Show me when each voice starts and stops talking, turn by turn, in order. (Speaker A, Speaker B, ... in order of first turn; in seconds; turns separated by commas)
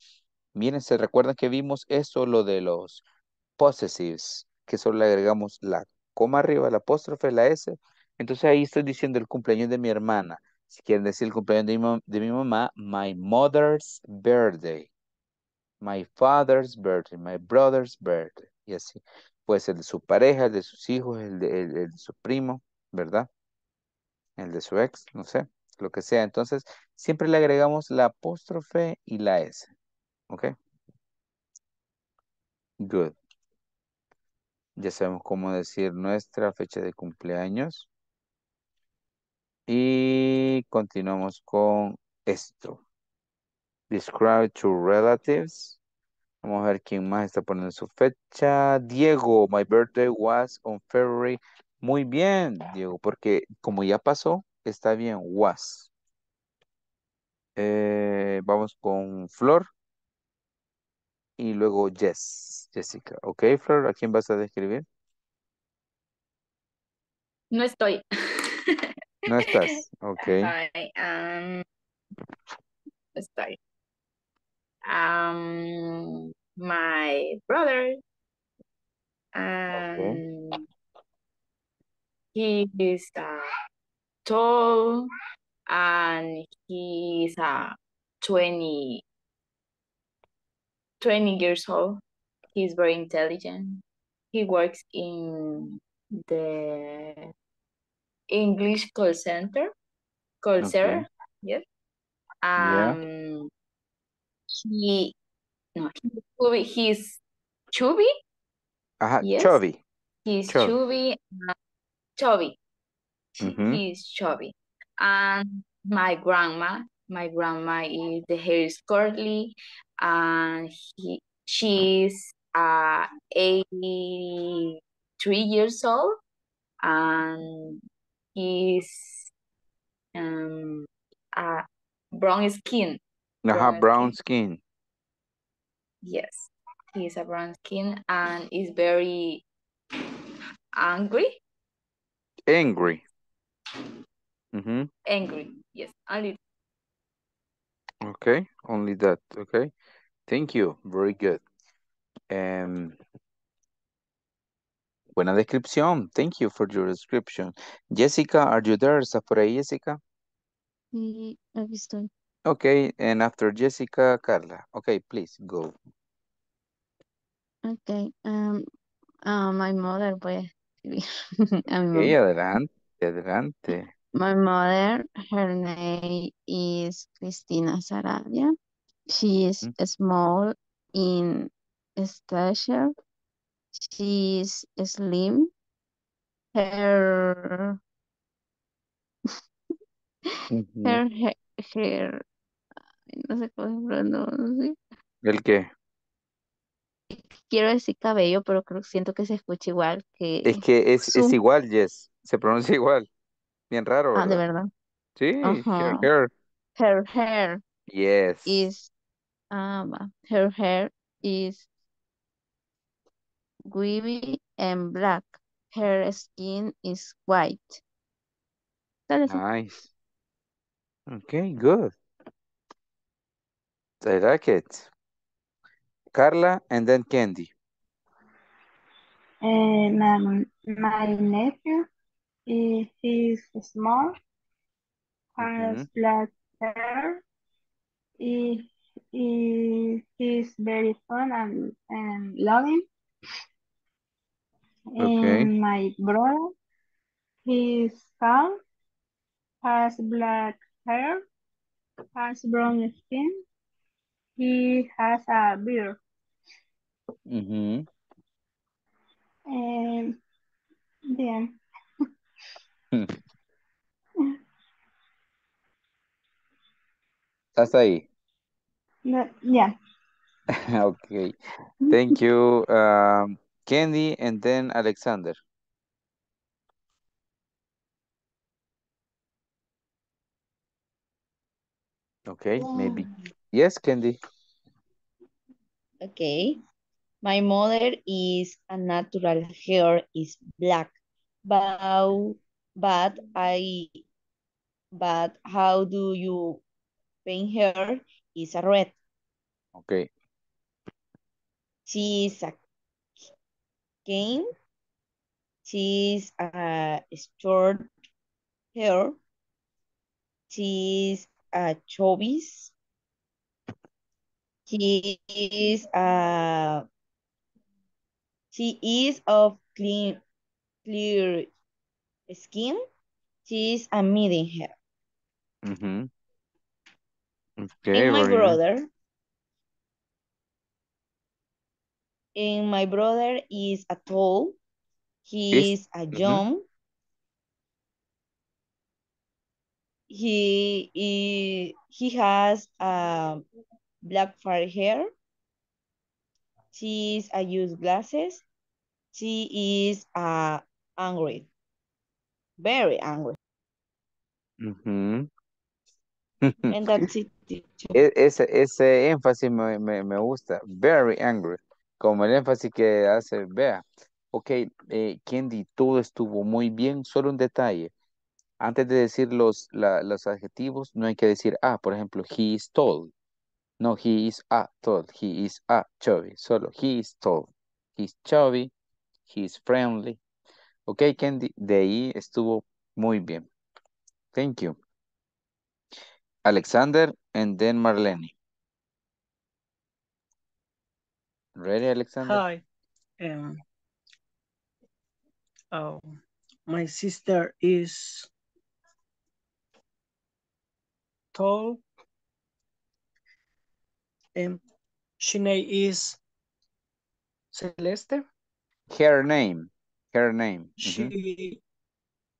Speaker A: 0.6-3.0, Speaker A: 3.6-14.9, Speaker A: 15.8-23.3, Speaker A: 24.4-29.7, Speaker A: 30.3-30.6, Speaker A: 32.8-33.1, Speaker A: 34.8-37.9, Speaker A: 39.7-42.8, Speaker A: 43.9-45.8, Speaker A: 46.4-55.9, Speaker A: 57.6-59.7, Speaker A: 61.4-64.8, Speaker B: 67.5-69.6, Speaker A: 69.3-70.5, Speaker B: 70.2-71.6, Speaker B: 73.2-73.6, Speaker B: 74.9-78.0, Speaker B: 79.3-80.7, Speaker A: 79.7-80.2, Speaker B: 82.3-83.5, Speaker B: 84.2-85.1, Speaker B: 85.7-89.0, Speaker B: 91.0-92.0, Speaker B: 92.5-97.3, Speaker B: 98.3-99.7, Speaker B: 100.4-101.6, Speaker A: 100.6-101.0, Speaker B: 102.4-103.5, Speaker A: 102.6-103.0, Speaker B: 104.5-105.2, Speaker B: 105.8-107.2, Speaker B: 107.7-108.1, Speaker A: 109.0-109.8, Speaker B: 109.2-109.6, Speaker B: 110.3-111.5, Speaker A: 110.5-110.8, Speaker B: 112.2-112.6, Speaker A: 113.4-113.8, Speaker B: 113.4-126.2, Speaker B: 126.8-127.8, Speaker B: 128.3-129.3, Speaker B: 130.1-134.2, Speaker A: 133.4-134.6, Speaker B: 136.0-139.4, Speaker B: 140.8-141.4, Speaker A: 142.5-143.0, Speaker A: 144.5-144.9, Speaker B: 145.1-146.4, Speaker A: 148.0-149.7, Speaker A: 150.3-151.4, Speaker A: 152.3-153.0, Speaker A: 155.2-160.0, Speaker C: 160.9-162.1, Speaker A: 162.5-165.7, Speaker C: 167.7-168.7, Speaker C: 169.2-171.1, Speaker C: 171.7-172.2, Speaker A: 171.9-173.9, Speaker C: 174.2-178.5, Speaker C: 179.1-182.9, Speaker C: 183.8-185.5, Speaker C: 186.5-187.8, Speaker A: 190.5-191.0, Speaker C: 190.8-192.2, Speaker C: 193.1-194.8, Speaker A: 195.2-195.7, Speaker C: 197.1-201.4, Speaker A: 200.4-203.1, Speaker A: 203.7-204.4, Speaker C: 204.2-204.7, Speaker A: 205.2-206.3, Speaker C: 205.4-206.1, Speaker C: 206.8-207.6, Speaker A: 207.9-208.7, Speaker C: 208.5-208.9, Speaker C: 209.5-211.7, Speaker C: 213.7-217.8, Speaker C: 219.1-219.4, Speaker A: 219.3-219.9, Speaker A: 221.1-221.9, Speaker A: 224.0-224.9, Speaker A: 226.1-227.5, Speaker D: 229.4-231.9, Speaker D: 232.5-234.2, Speaker D: 235.4-237.2, Speaker A: 235.4-235.9, Speaker D: 238.2-242.9, Speaker D: 244.9-246.5, Speaker A: 245.0-245.5, Speaker D: 247.4-248.6, Speaker D: 249.6-251.2, Speaker D: 252.2-253.4, Speaker D: 254.4-256.0, Speaker A: 257.3-257.9, Speaker D: 259.5-260.2, Speaker D: 261.1-261.6, Speaker A: 267.6-268.1, Speaker D: 269.1-269.8, Speaker A: 270.5-271.4, Speaker A: 271.9-275.4, Speaker A: 282.3-284.2, Speaker E: 286.0-286.6, Speaker E: 287.2-290.9, Speaker E: 291.4-294.0, Speaker E: 294.9-296.6, Speaker E: 297.2-298.9, Speaker A: 299.8-300.1, Speaker E: 301.9-302.6, Speaker E: 304.1-304.5, Speaker E: 305.6-307.9, Speaker E: 308.8-309.2, Speaker E: 310.5-312.7, Speaker E: 314.7-316.9, Speaker E: 318.5-320.2, Speaker E: 320.9-321.5, Speaker E: 322.3-322.8, Speaker E: 323.5-324.8, Speaker A: 325.6-326.1, Speaker A: 327.6-328.6, Speaker E: 327.9-328.9, Speaker E: 332.4-334.6, Speaker E: 335.3-336.6, Speaker A: 335.5-336.4, Speaker E: 340.1-343.4, Speaker E: 344.0-345.1, Speaker E: 346.7-348.4, Speaker E: 349.1-351.5, Speaker E: 352.6-353.4, Speaker A: 354.6-355.3, Speaker A: 356.4-357.1, Speaker E: 356.7-358.0, Speaker A: 357.9-367.9, Speaker A: 368.6-373.1, Speaker A: 373.8-378.7, Speaker A: 379.3-380.2, Speaker A: 380.9-383.5, Speaker A: 384.3-384.8, Speaker A: 386.4-388.3, Speaker A: 391.6-392.4, Speaker F: 392.2-392.6, Speaker F: 393.2-393.6, Speaker F: 395.7-398.3, Speaker F: 401.3-401.8, Speaker F: 405.2-406.2, Speaker F: 407.5-408.2, Speaker A: 408.9-411.1, Speaker F: 410.8-411.6